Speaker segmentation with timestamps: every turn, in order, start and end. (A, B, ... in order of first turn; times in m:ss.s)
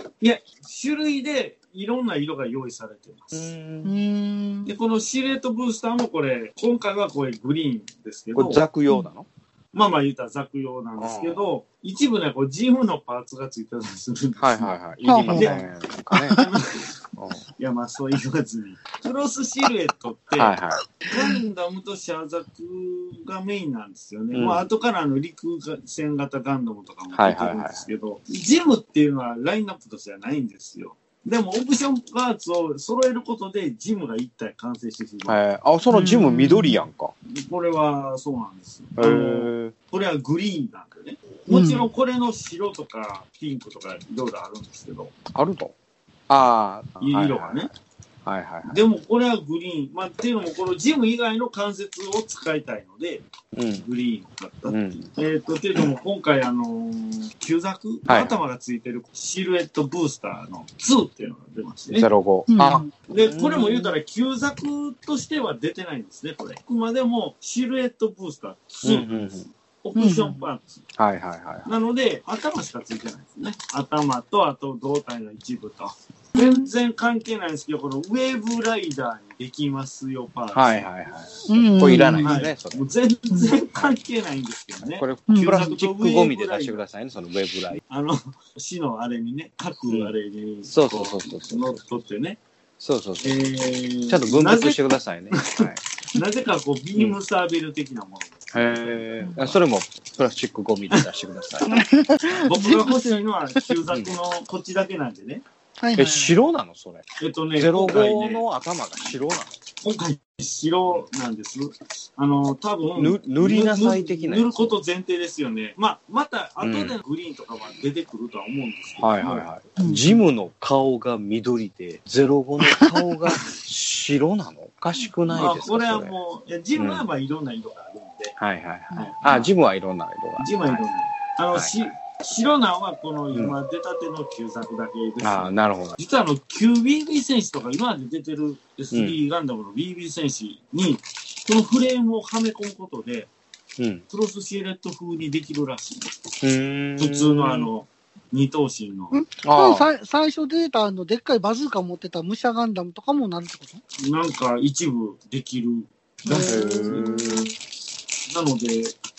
0:00.2-0:03.5 A
0:03.3-0:03.9 B
0:03.8-0:04.7 C
0:04.6-0:08.6 A
0:08.3-0:09.3 B
0:09.7-0:14.7 A
0:11.0-0:11.4 B
0:14.4-0:16.4 B
0:15.0-0:15.6 C
0:15.3-0:15.6 A
0:16.2-0:16.9 A
0:17.2-0:17.4 B
0:17.6-0:20.6 A
0:20.3-0:20.8 B
0:21.1-0:35.4 A
0:24.3-0:24.6 B
0:27.1-0:27.8 B
0:35.2-0:37.1 B
0:35.9-0:36.8 C
0:37.3-0:45.1 A
0:39.0-0:39.7 B
0:41.5-0:41.9 C
0:45.3-0:45.7 B
0:46.3-0:47.7 B
0:47.0-0:47.7 A
0:48.2-0:48.8 B
0:48.7-0:53.2 A
0:53.5-0:53.8 B
0:53.8-1:02.1 A
0:54.7-0:55.1 B
0:58.1-0:58.4 B
1:01.9-1:03.9 B
1:02.5-1:02.9 C
1:03.1-1:10.8 A
1:08.8-1:09.5 B
1:10.0-1:10.4 C
1:11.0-1:11.7 B
1:11.6-1:20.8 A
1:16.4-1:16.7 C
1:20.5-1:22.8 B
1:21.5-1:22.4 C
1:22.2-1:26.8 A
1:24.8-1:27.8 B
1:25.3-1:25.7 C
1:27.9-1:32.4 A
1:29.9-1:30.1 B
1:30.6-1:31.8 B
1:32.8-1:33.4 B
1:33.2-1:39.5 A
1:34.0-1:35.8 B
1:38.5-1:41.7 B
1:41.7-1:43.2 C
1:42.4-1:45.4 A
1:45.8-1:46.4 C
1:46.0-1:47.0 B
1:47.2-1:48.4 A
1:47.6-1:49.6 B
1:49.8-2:00.2 A
1:53.0-1:54.7 B
1:56.6-1:57.0 B
1:59.0-2:06.1 B
2:05.3-2:08.4 A
2:06.8-2:07.0 B
2:08.4-2:10.8 B
2:09.0-2:09.5 A
2:10.4-2:23.3 A
2:15.2-2:16.0 B
2:18.9-2:19.2 B
2:23.8-2:24.0 B
2:24.1-2:26.2 A
2:26.4-2:27.7 B
2:27.0-2:29.2 A
2:29.1-2:33.8 C
2:29.4-2:29.9 B
2:34.0-2:37.3 A
2:36.2-2:37.5 C
2:36.4-2:37.5 B
2:38.3-2:39.0 A